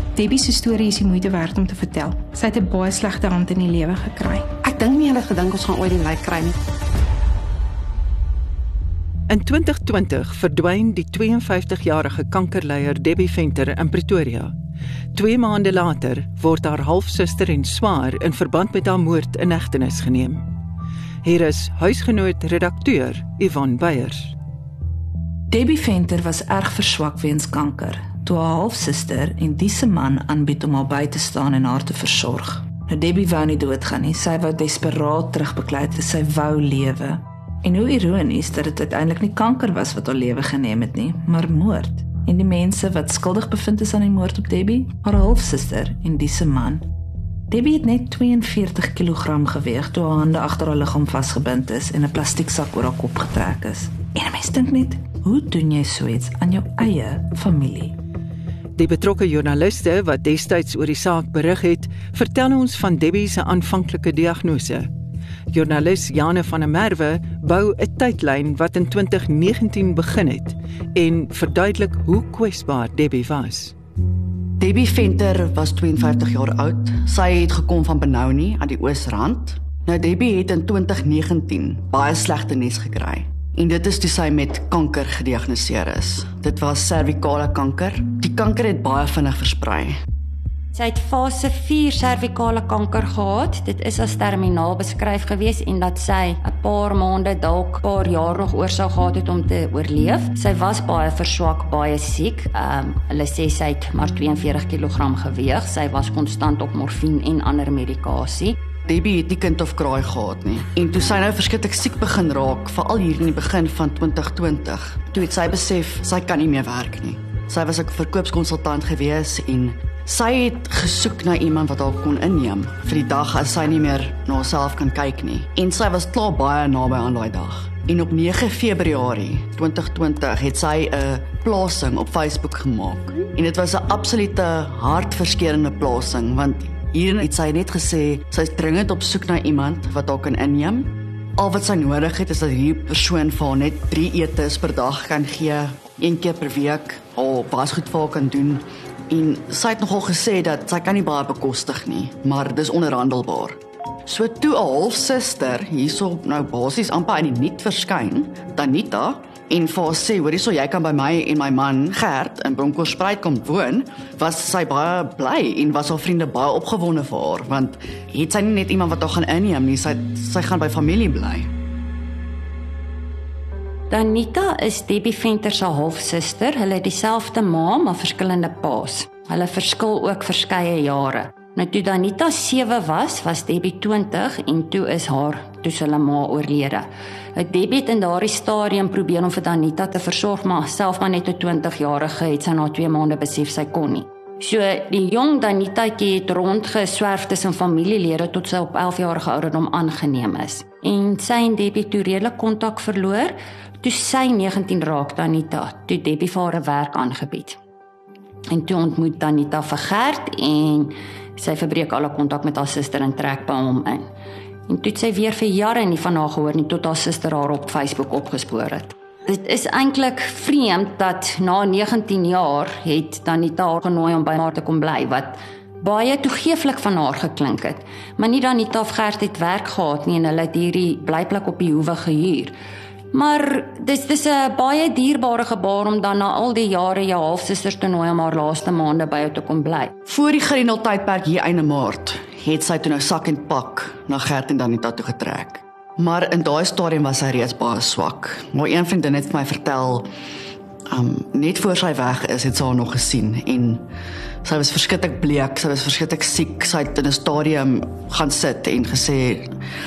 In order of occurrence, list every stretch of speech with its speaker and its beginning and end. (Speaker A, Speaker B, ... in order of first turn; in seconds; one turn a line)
Speaker A: 0.1-4.5
Speaker B: 4.6-6.6
Speaker C: 9.3-14.5
Speaker C: 15.1-20.4
Speaker C: 21.2-24.3
Speaker D: 25.5-46.8
Speaker D: 47.5-57.9
Speaker C: 58.8-64.9
Speaker C: 65.5-73.7
Speaker E: 74.6-89.9
Speaker F: 90.7-108.5
Speaker E: 108.8-171.5
Speaker F: 173.9-207.6
Speaker F: 208.5-214.1
Speaker F: 214.7-232.5
Speaker F: 233.1-239.9
Speaker E: 240.1-250.1
Speaker E: 250.9-253.8
Speaker E: 254.4-259.6